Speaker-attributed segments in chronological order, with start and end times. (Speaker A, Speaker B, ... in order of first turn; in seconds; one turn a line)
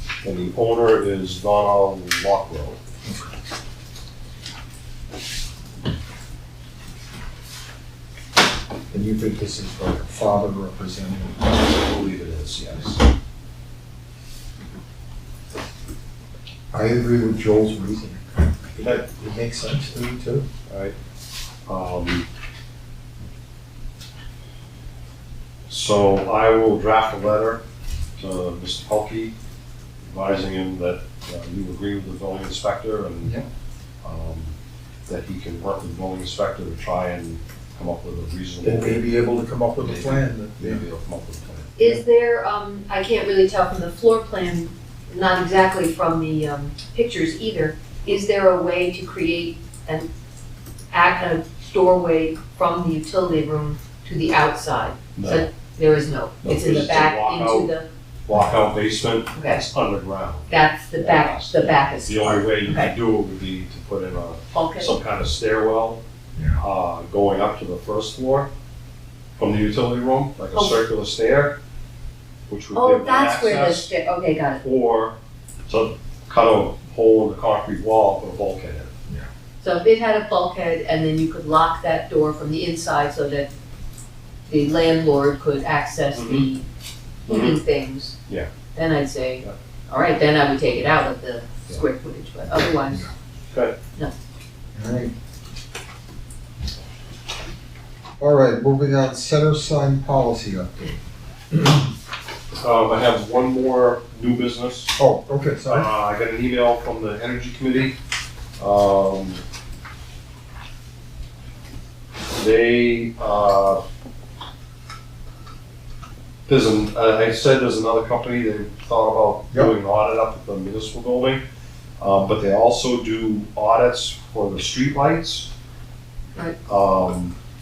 Speaker A: 0.2-2.8
Speaker B: 3.0-3.3
Speaker B: 8.9-11.4
Speaker A: 11.5-13.0
Speaker B: 16.7-20.5
Speaker A: 20.7-20.9
Speaker A: 21.7-22.3
Speaker A: 25.7-27.6
Speaker A: 28.2-29.3
Speaker A: 30.1-33.4
Speaker A: 34.0-34.5
Speaker A: 35.1-39.1
Speaker B: 38.6-40.8
Speaker A: 39.8-41.8
Speaker C: 41.8-50.1
Speaker C: 50.9-57.9
Speaker A: 55.2-55.5
Speaker A: 56.4-57.7
Speaker A: 58.3-66.0
Speaker C: 59.4-59.6
Speaker C: 60.5-62.9
Speaker C: 64.5-64.9
Speaker A: 66.6-68.5
Speaker A: 69.4-71.5
Speaker A: 72.5-73.9
Speaker C: 72.7-74.6
Speaker A: 74.6-75.1
Speaker A: 75.7-79.0
Speaker C: 79.6-83.5
Speaker C: 84.5-86.7
Speaker A: 86.1-86.5
Speaker C: 87.3-88.2
Speaker A: 87.3-87.5
Speaker C: 88.8-93.1
Speaker B: 94.8-95.1
Speaker B: 98.2-101.0
Speaker A: 102.6-105.0
Speaker B: 105.0-105.9
Speaker A: 105.7-108.0
Speaker A: 108.6-109.4
Speaker A: 112.3-113.8
Speaker A: 116.5-121.4
Speaker A: 122.0-125.5
Speaker A: 126.7-127.3